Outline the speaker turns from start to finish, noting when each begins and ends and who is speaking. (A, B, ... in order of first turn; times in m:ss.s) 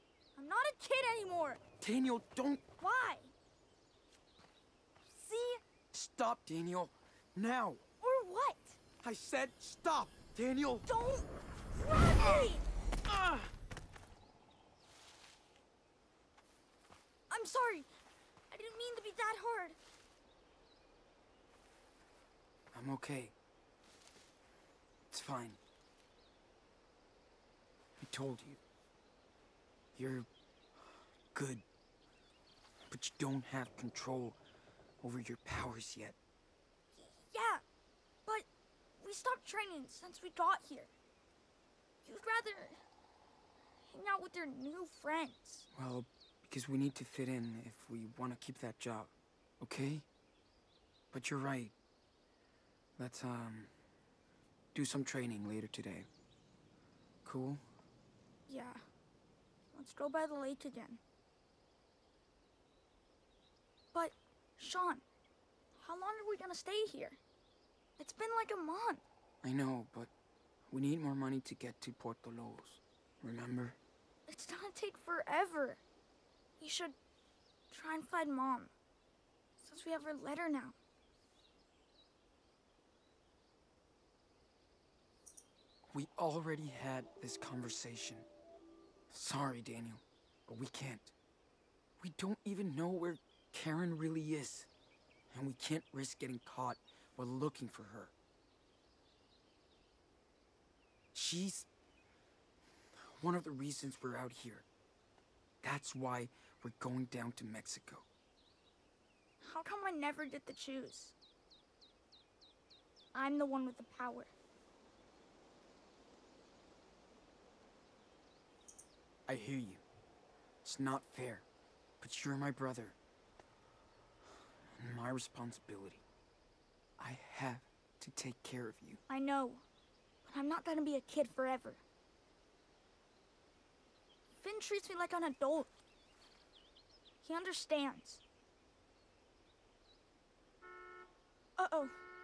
0:00.4-0:01.6 A
0:01.8-0:02.6 B
0:02.8-0:03.3 A
0:05.0-0:05.6 A
0:05.9-0:07.8 B
0:08.0-0:08.8 A
0:09.0-0:10.9 B
0:10.9-0:12.6 A
0:12.2-0:12.4 B
0:13.1-0:13.4 B
0:17.3-0:17.9 A
0:18.5-0:19.8 A
0:22.7-0:23.3 B
0:25.1-0:25.6 B
0:28.0-0:28.6 B
0:29.9-0:30.3 B
0:30.8-0:31.6 B
0:32.9-0:34.4 B
0:35.0-0:36.2 B
0:36.9-0:37.6 A
0:39.0-0:40.9 A
0:42.0-0:42.7 A
0:43.9-0:45.7 A
0:45.7-0:50.0 B
0:51.1-0:51.7 B
0:53.0-0:53.7 B
0:54.7-0:56.1 B
0:57.2-0:57.6 B
0:58.5-0:58.8 A
0:59.7-1:01.0 A
1:03.9-1:05.0 A
1:05.8-1:07.2 A
1:08.0-1:09.0 A
1:09.4-1:10.1 B
1:10.7-1:13.8 B
1:14.3-1:15.8 A
1:16.6-1:17.0 A
1:17.7-1:18.7 A
1:19.6-1:20.7 A
1:25.9-1:28.2 B
1:29.1-1:31.1 B
1:32.0-1:34.7 B
1:35.3-1:38.1 B
1:41.1-1:41.7 B
1:43.0-1:44.6 B
1:45.6-1:48.0 B
1:49.4-1:51.1 A
1:53.1-1:54.3 A
1:59.3-1:59.8 B
2:00.6-2:01.4 B
2:02.0-2:03.0 B
2:04.8-2:06.0 B
2:07.0-2:09.0 B
2:09.1-2:09.6 A
2:10.2-2:11.8 A
2:14.3-2:15.7 A
2:17.2-2:18.2 A
2:21.6-2:22.0 A